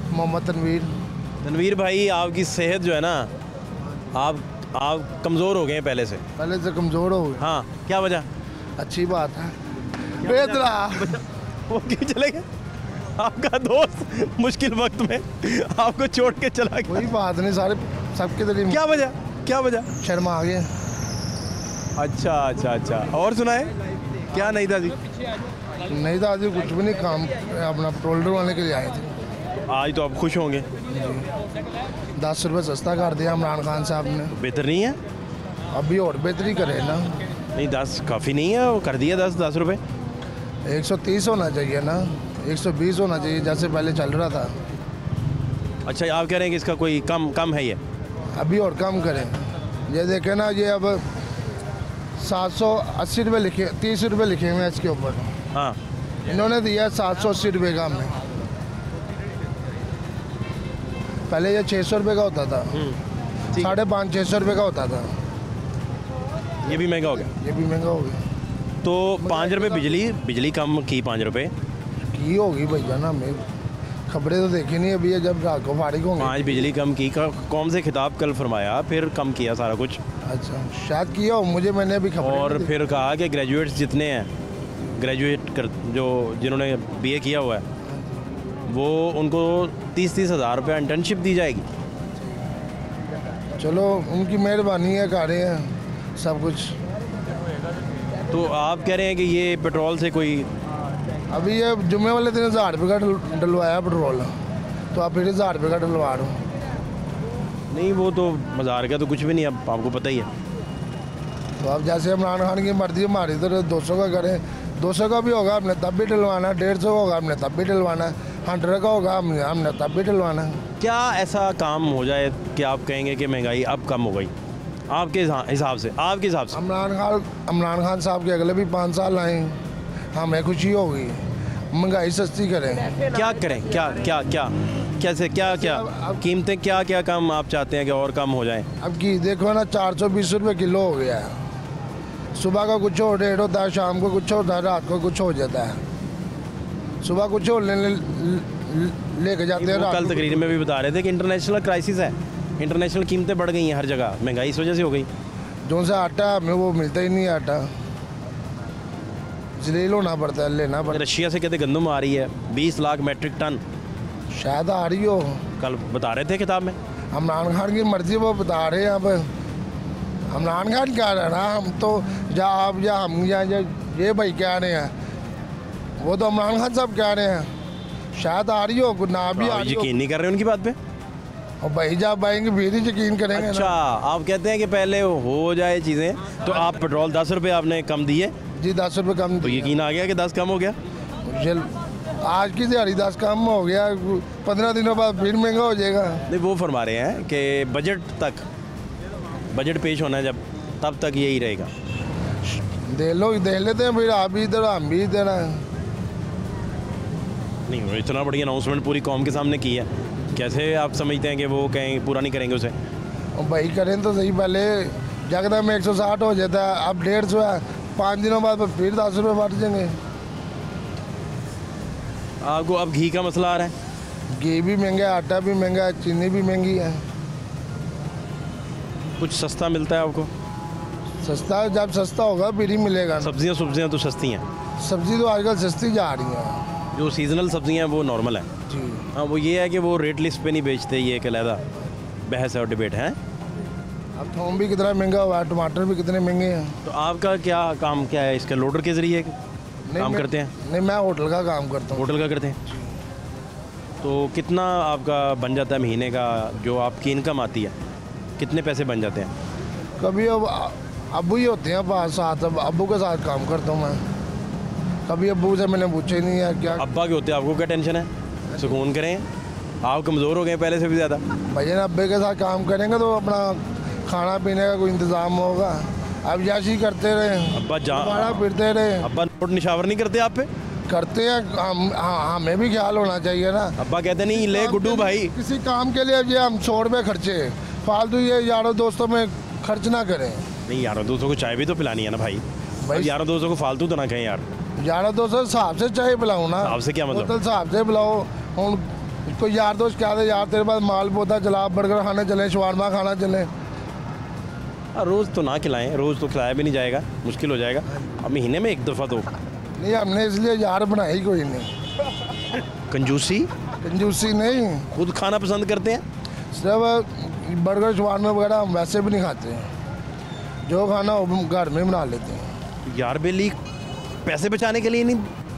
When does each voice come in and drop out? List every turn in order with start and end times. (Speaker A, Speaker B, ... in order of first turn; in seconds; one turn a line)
Speaker A: 0.1-0.9
Speaker B: 1.4-3.3
Speaker B: 4.1-6.2
Speaker A: 6.4-7.5
Speaker B: 7.4-8.3
Speaker A: 8.8-11.2
Speaker B: 10.2-12.4
Speaker B: 13.2-17.1
Speaker A: 16.9-18.8
Speaker B: 18.7-19.9
Speaker A: 20.0-20.7
Speaker B: 22.0-23.7
Speaker B: 24.3-24.9
Speaker A: 25.9-29.1
Speaker B: 29.7-30.7
Speaker A: 30.9-31.3
Speaker A: 32.2-34.3
Speaker B: 34.3-35.0
Speaker A: 35.7-37.2
Speaker B: 37.5-39.8
Speaker A: 40.7-44.5
Speaker B: 45.8-47.8
Speaker A: 48.4-51.0
Speaker A: 52.2-55.4
Speaker A: 56.3-58.2
Speaker A: 61.3-62.7
Speaker B: 62.7-63.0
Speaker A: 63.6-65.2
Speaker B: 66.6-67.3
Speaker A: 67.2-68.2
Speaker B: 68.8-71.5
Speaker A: 72.1-73.5
Speaker A: 74.1-76.6
Speaker B: 76.2-80.0
Speaker A: 80.2-82.7
Speaker B: 82.2-84.3
Speaker B: 85.0-87.6
Speaker A: 87.9-88.3
Speaker B: 88.7-91.6
Speaker A: 93.6-96.8
Speaker B: 98.3-100.5
Speaker A: 101.3-104.3
Speaker A: 104.9-106.4
Speaker B: 107.7-110.3
Speaker A: 111.6-120.6
Speaker B: 120.8-124.3
Speaker B: 124.9-126.6
Speaker A: 126.5-129.6
Speaker A: 130.1-133.0
Speaker B: 133.0-138.7
Speaker A: 135.4-136.2
Speaker A: 138.8-141.3
Speaker A: 142.3-145.8
Speaker A: 147.0-150.3
Speaker B: 149.6-155.1
Speaker A: 155.7-157.7
Speaker A: 159.6-161.0
Speaker B: 160.9-163.6
Speaker A: 164.3-165.4
Speaker B: 165.6-166.8
Speaker A: 167.1-169.3
Speaker A: 170.3-174.9
Speaker A: 176.0-177.5
Speaker A: 178.1-179.9
Speaker B: 179.3-180.8
Speaker A: 181.6-183.7
Speaker B: 183.3-188.3
Speaker A: 188.6-189.8
Speaker B: 189.4-190.8
Speaker A: 191.2-191.7
Speaker A: 192.2-196.2
Speaker B: 196.3-198.4
Speaker B: 199.5-201.7
Speaker A: 202.5-205.7
Speaker B: 207.7-212.7
Speaker A: 213.4-220.0
Speaker B: 222.4-223.7
Speaker A: 224.3-227.0
Speaker B: 229.2-230.3
Speaker A: 231.2-233.3
Speaker B: 233.2-234.4
Speaker A: 234.8-236.7
Speaker B: 236.9-238.5
Speaker A: 238.7-239.1
Speaker B: 239.1-241.6
Speaker B: 242.3-243.2
Speaker A: 244.2-246.8
Speaker B: 246.8-249.3
Speaker A: 249.9-252.9
Speaker B: 250.0-250.5
Speaker B: 251.9-252.6
Speaker B: 254.0-257.7
Speaker B: 258.4-259.3
Speaker A: 260.0-264.0
Speaker A: 265.1-266.9
Speaker B: 266.8-269.2
Speaker B: 269.8-271.2
Speaker A: 271.5-279.1
Speaker B: 277.5-278.5
Speaker B: 279.0-280.5
Speaker A: 280.9-290.5
Speaker B: 283.8-285.3
Speaker B: 290.7-294.4
Speaker A: 292.8-293.1
Speaker A: 294.8-303.5
Speaker B: 296.6-297.3
Speaker B: 304.9-309.3
Speaker A: 307.9-308.2
Speaker A: 309.8-311.7
Speaker B: 312.9-313.5
Speaker A: 313.8-314.9
Speaker B: 314.9-316.0
Speaker A: 316.5-319.7
Speaker A: 320.7-322.5
Speaker B: 322.9-323.6
Speaker B: 324.2-325.3